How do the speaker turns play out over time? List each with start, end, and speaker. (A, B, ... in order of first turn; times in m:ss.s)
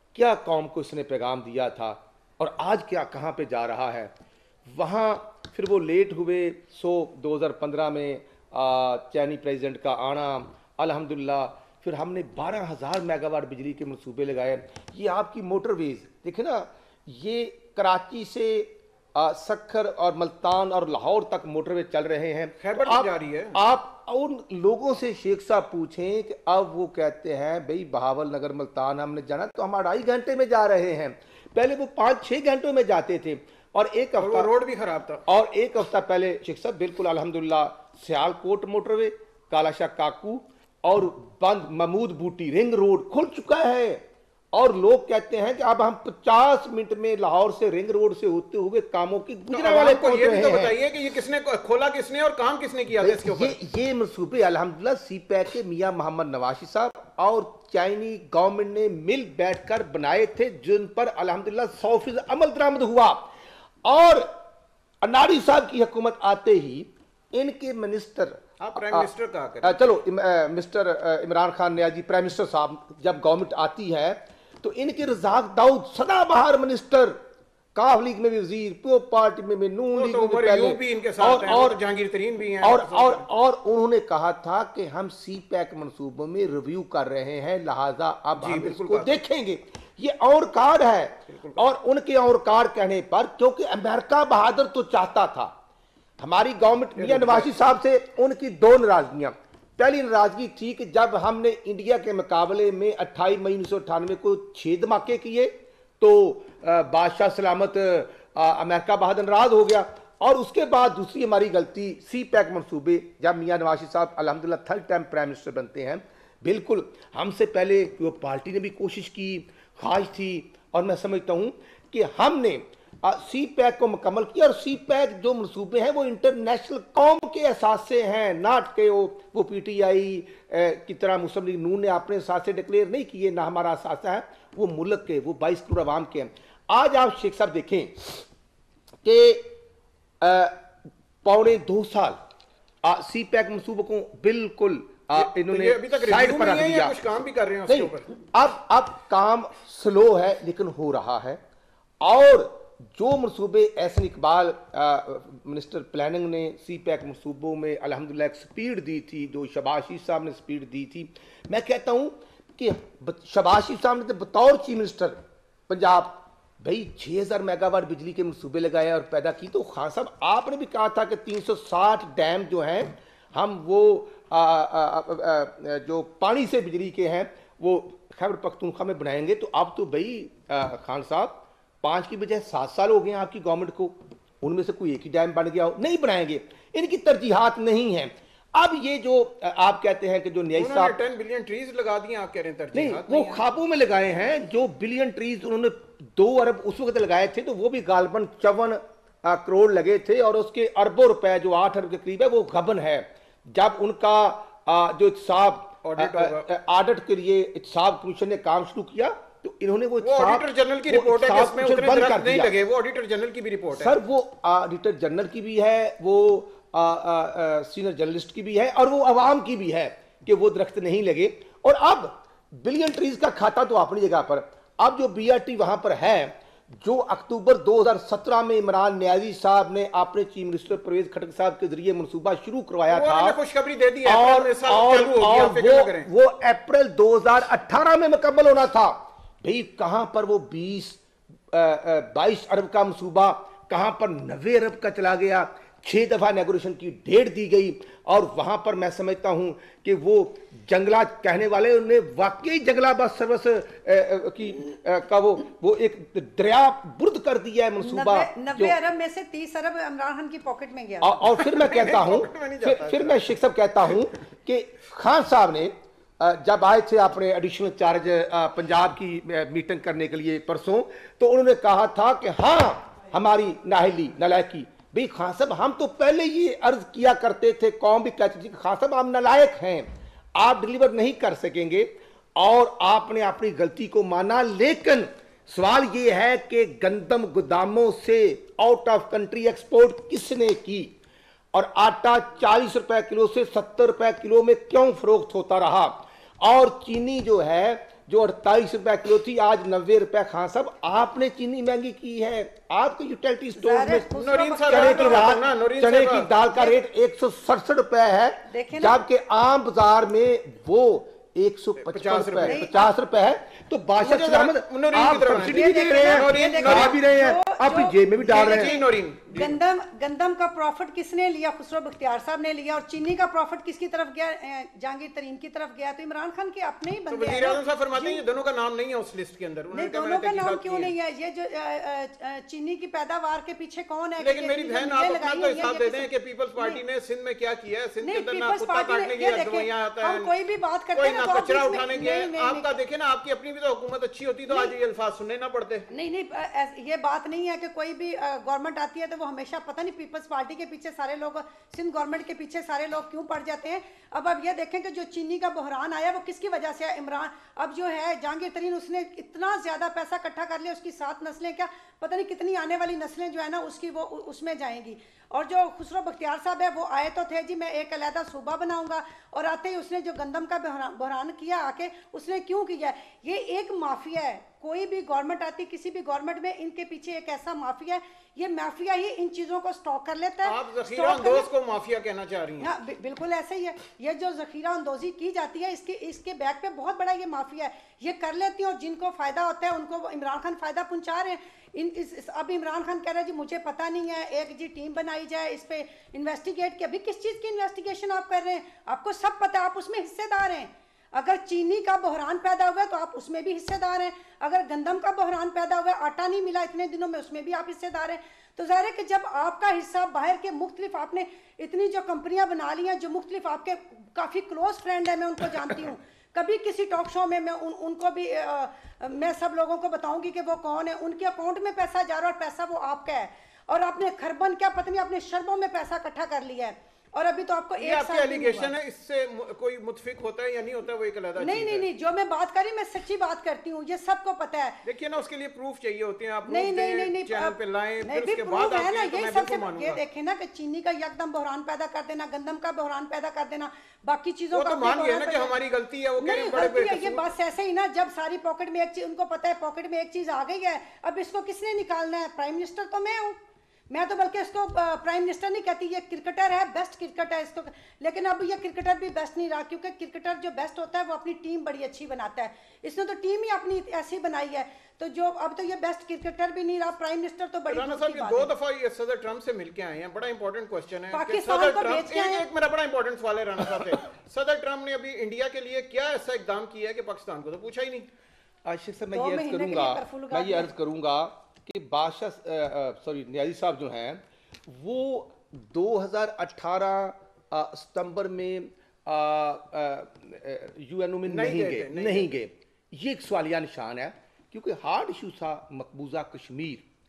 0:00.2-0:04.1 A
0:04.7-0:34.5 A
0:22.6-0:23.6 B
0:34.2-0:35.2 B
0:35.3-0:50.8 A
0:49.5-0:53.6 B
0:53.0-1:03.3 A
1:03.8-1:04.4 A
1:05.0-1:09.1 A
1:08.6-1:09.8 B
1:09.6-1:17.2 A
1:17.8-1:21.8 A
1:20.0-1:23.3 B
1:22.6-1:35.5 A
1:28.4-1:29.2 B
1:31.3-1:31.6 B
1:36.2-2:18.2 A
1:37.0-1:37.5 B
2:19.0-2:19.5 A
2:20.2-2:20.6 A
2:21.2-2:22.2 A
2:22.8-2:27.0 A
2:25.1-2:28.1 B
2:27.7-2:31.4 A
2:32.0-3:11.0 A
3:10.6-3:13.4 B
3:12.7-3:32.6 A
3:25.8-3:26.5 B
3:30.0-3:34.0 B
3:33.8-3:53.4 A
3:52.9-3:56.1 B
3:54.0-4:01.0 A
4:01.5-4:18.8 A
4:17.8-4:21.3 C
4:21.0-4:50.9 A
4:21.4-4:23.3 B
4:51.5-5:04.1 A
5:03.6-5:05.3 C
5:04.2-5:06.3 B
5:04.6-5:18.7 A
5:08.5-5:09.0 C
5:11.8-5:12.7 B
5:12.4-5:12.9 C
5:14.0-5:17.0 B
5:15.4-5:28.2 C
5:18.3-5:19.6 B
5:27.1-5:30.9 B
5:29.7-5:36.8 C
5:34.2-5:40.3 B
5:38.0-5:42.7 C
5:41.0-5:45.9 B
5:44.5-5:44.8 C
5:45.9-6:21.5 C
6:20.4-6:22.7 B
6:22.6-7:08.7 C
7:07.8-7:11.9 B
7:11.4-7:14.8 C
7:14.8-7:20.0 B
7:16.5-7:25.5 C
7:24.5-7:27.3 B
7:26.2-7:33.4 C
7:33.9-7:48.5 C
7:47.7-7:58.1 B
7:51.1-7:52.5 C
7:58.6-8:16.8 A
7:59.1-8:00.7 C
8:11.3-8:12.3 B